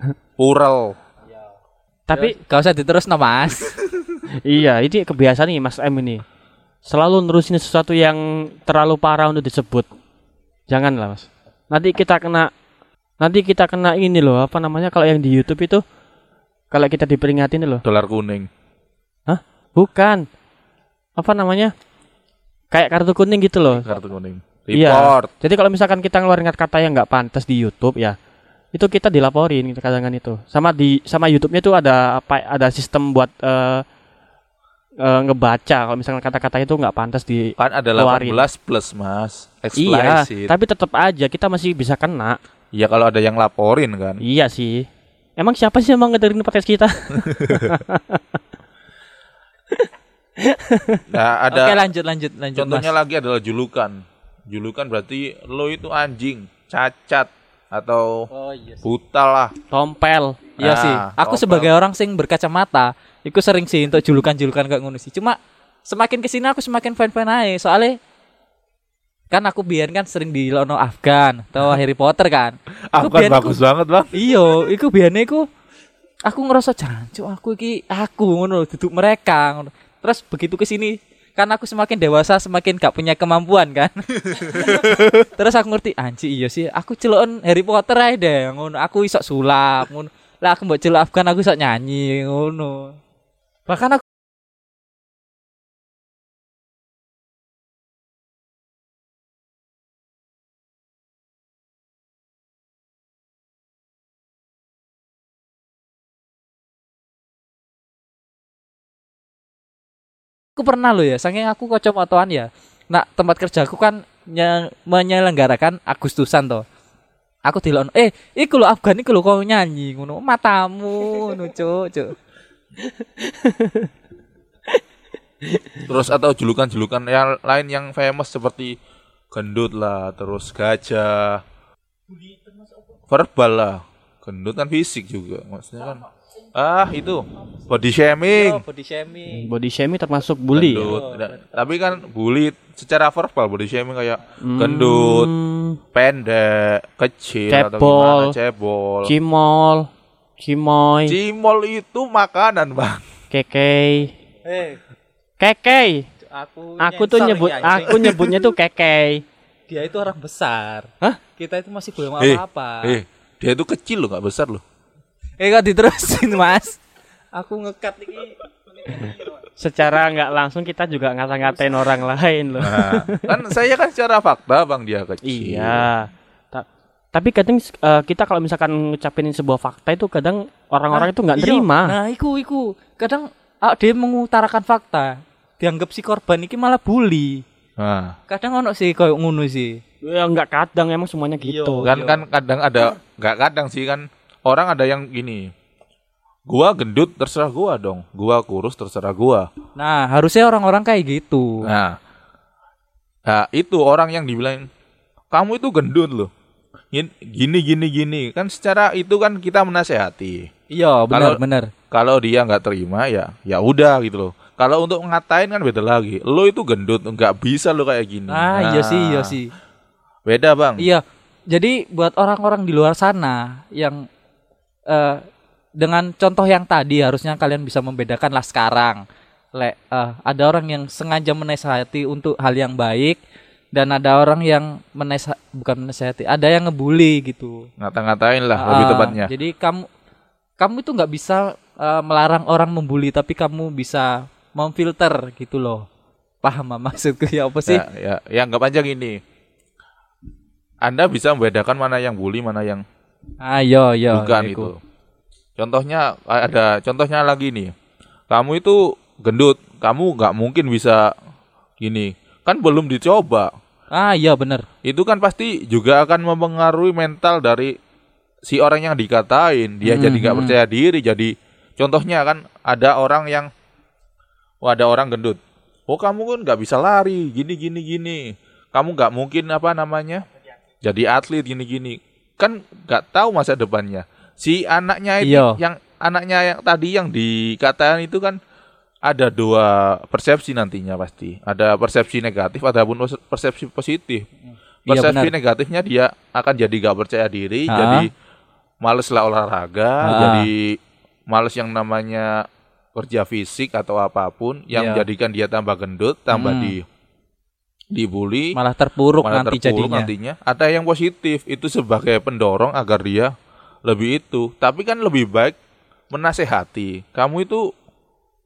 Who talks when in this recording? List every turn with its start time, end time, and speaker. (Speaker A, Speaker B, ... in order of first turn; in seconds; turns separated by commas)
Speaker A: 0.4-1.0, Speaker B: 2.1-2.4, Speaker C: 2.1-3.8, Speaker B: 4.3-6.2, Speaker B: 6.8-9.9, Speaker B: 10.7-12.5, Speaker B: 13.2-15.8, Speaker B: 16.7-17.8, Speaker A: 17.9-18.5, Speaker B: 19.3-20.3, Speaker B: 21.2-21.7, Speaker B: 22.7-23.9, Speaker A: 23.8-25.3, Speaker B: 24.7-28.2, Speaker B: 28.7-33.9, Speaker B: 35.0-38.5, Speaker A: 37.6-40.5, Speaker B: 39.8-42.4, Speaker A: 42.7-44.2, Speaker B: 44.2-48.4, Speaker A: 47.2-47.7, Speaker B: 49.7-51.0, Speaker A: 51.1-51.8, Speaker C: 51.5-52.9, Speaker A: 52.6-58.3, Speaker C: 58.3-58.9, Speaker A: 58.8-59.5, Speaker B: 59.7-60.5, Speaker C: 60.6-68.0, Speaker A: 60.6-61.7, Speaker C: 69.3-73.6, Speaker A: 72.9-74.1, Speaker C: 74.1-75.5, Speaker C: 76.2-93.0, Speaker C: 93.7-94.0, Speaker C: 110.6-116.7, Speaker C: 117.5-122.2, Speaker B: 122.8-123.9, Speaker B: 125.4-125.9, Speaker A: 125.8-128.8, Speaker A: 129.3-131.4, Speaker A: 133.1-138.6, Speaker C: 138.3-139.5, Speaker B: 139.3-141.0, Speaker A: 140.6-145.3, Speaker C: 140.9-141.4, Speaker B: 144.4-145.8, Speaker A: 145.9-149.1, Speaker B: 147.5-148.4, Speaker B: 149.0-151.2, Speaker A: 151.1-153.0, Speaker B: 153.3-154.2, Speaker C: 154.4-154.8, Speaker B: 155.4-156.1, Speaker C: 156.2-158.3, Speaker B: 156.8-159.2, Speaker C: 159.7-163.0, Speaker A: 162.2-164.6, Speaker C: 165.4-169.3, Speaker B: 169.6-173.5, Speaker A: 172.6-175.9, Speaker B: 175.2-181.9, Speaker C: 180.9-187.4, Speaker A: 187.8-188.2, Speaker C: 188.3-189.8, Speaker B: 190.0-191.9, Speaker C: 191.4-192.2, Speaker A: 191.8-195.5, Speaker A: 196.5-199.5, Speaker C: 199.8-201.7, Speaker A: 201.7-202.0, Speaker A: 203.3-204.7, Speaker A: 205.3-206.3, Speaker A: 206.9-210.5, Speaker C: 210.7-211.7, Speaker A: 211.1-211.4, Speaker A: 211.9-219.4, Speaker C: 218.3-219.5, Speaker A: 220.3-220.8, Speaker C: 220.8-224.1, Speaker C: 224.9-225.2, Speaker C: 225.8-229.0, Speaker C: 229.6-233.2, Speaker C: 233.7-237.7, Speaker A: 237.8-239.3, Speaker C: 238.6-239.9, Speaker C: 240.6-245.9, Speaker C: 246.4-247.8, Speaker A: 247.7-249.2, Speaker A: 250.8-252.8, Speaker C: 253.4-254.7, Speaker A: 254.1-254.8, Speaker A: 255.6-257.7, Speaker A: 258.3-261.1, Speaker A: 261.8-263.5, Speaker C: 263.9-264.7, Speaker A: 264.8-267.8, Speaker A: 268.5-273.5, Speaker C: 269.8-270.6, Speaker A: 274.6-280.2, Speaker A: 280.8-288.4, Speaker C: 285.2-285.6, Speaker A: 289.1-294.3, Speaker A: 294.9-298.1, Speaker C: 294.9-295.3, Speaker C: 297.7-298.1, Speaker A: 298.8-306.8, Speaker C: 300.0-300.5, Speaker C: 304.8-305.1, Speaker C: 306.3-306.7, Speaker A: 307.9-308.6, Speaker C: 308.6-310.1, Speaker A: 309.2-313.3, Speaker A: 313.9-315.6, Speaker A: 316.1-317.7